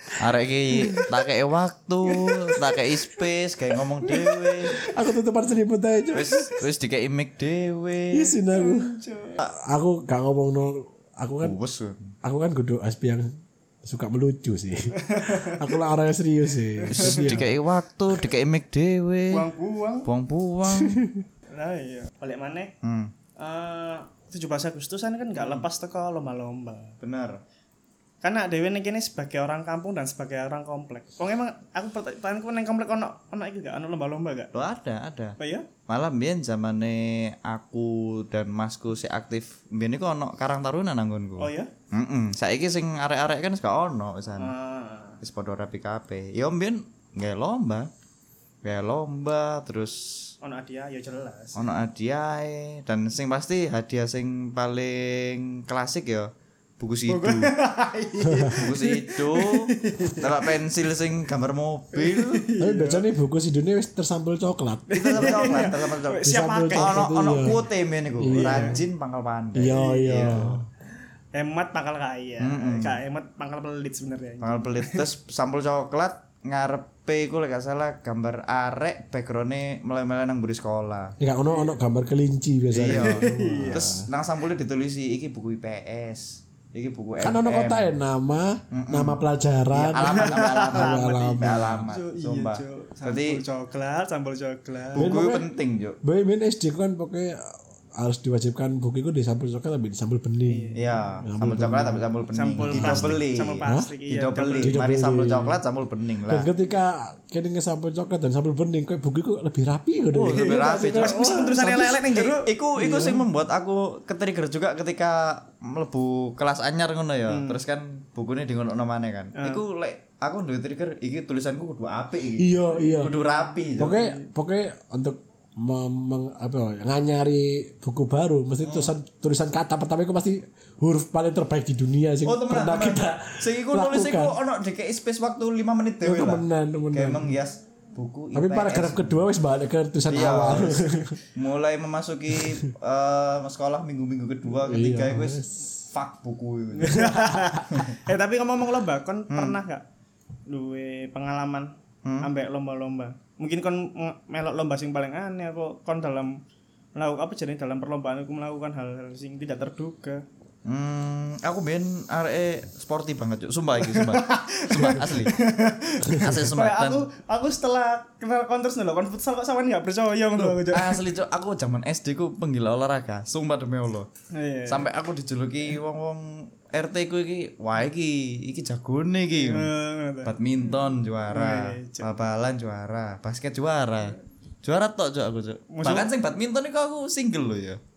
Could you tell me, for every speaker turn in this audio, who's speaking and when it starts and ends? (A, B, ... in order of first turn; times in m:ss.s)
0:00.2-0:04.8 A
0:00.3-0:01.1 B
0:02.0-0:02.8 C
0:04.0-0:04.9 C
0:04.8-0:06.6 B
0:06.1-0:08.3 A
0:08.1-0:09.0 B
0:08.5-0:09.4 C
0:09.5-0:11.6 B
0:11.4-0:12.1 A
0:12.2-0:13.3 B
0:13.8-0:17.5 B
0:14.9-0:15.7 C
0:16.8-0:17.4 C
0:16.9-0:19.4 A
0:19.3-0:20.1 C
0:20.0-0:21.0 A
0:20.8-0:21.2 B
0:21.5-0:22.7 C
0:22.8-0:23.1 A
0:23.4-0:27.0 C
0:25.4-0:25.6 A
0:27.0-0:27.4 A
0:28.2-0:34.5 C
0:34.5-0:35.4 A
0:35.4-0:35.7 C
0:35.9-0:44.5 A
0:41.4-0:41.7 C
0:44.4-0:45.2 C
0:45.2-0:47.9 A
0:48.6-0:50.3 A
0:50.4-0:51.6 C
0:51.6-0:57.5 A
0:57.1-1:00.4 C
0:58.2-0:58.6 B
0:58.5-1:02.4 A
1:01.9-1:03.1 C
1:02.6-1:07.6 B
1:04.9-1:07.0 C
1:04.9-1:10.6 A
1:08.2-1:08.8 B
1:08.3-1:08.8 C
1:09.5-1:10.6 B
1:09.7-1:10.4 C
1:11.3-1:15.0 C
1:12.4-1:13.0 A
1:14.4-1:21.2 A
1:21.2-1:24.0 B
1:22.7-1:27.9 A
1:22.9-1:23.9 C
1:27.2-1:31.9 B
1:28.7-1:33.4 A
1:30.0-1:35.1 C
1:34.9-1:36.0 A
1:35.0-1:35.5 B
1:36.0-1:42.0 B
1:40.4-1:41.2 C
1:40.8-1:46.5 A
1:42.3-1:44.8 C
1:42.6-1:43.9 B
1:44.6-1:45.6 B
1:46.3-1:52.0 B
1:50.1-2:04.1 A
1:50.3-1:52.5 C
1:52.8-1:53.3 B
1:57.3-1:57.6 C
1:59.4-1:59.6 C
2:02.4-2:03.2 B
2:02.8-2:04.2 C
2:03.8-2:14.4 B
2:08.6-2:08.9 A
2:12.2-2:19.2 A
2:16.0-2:17.3 B
2:18.3-2:21.2 B
2:20.1-2:25.4 A
2:22.3-2:22.7 B
2:24.6-2:25.6 B
2:25.9-2:27.9 A
2:26.7-2:29.8 C
2:29.3-2:29.6 A
2:30.5-2:36.4 C
2:32.0-2:32.3 A
2:36.9-2:40.2 C
2:40.6-2:45.3 A
2:43.8-2:51.0 C
2:46.1-2:47.0 A
2:50.4-2:54.1 A
2:54.3-2:54.9 C
2:54.6-2:59.7 A
2:59.4-3:00.3 C
3:00.2-3:07.8 A
3:01.3-3:02.1 C
3:05.7-3:06.1 C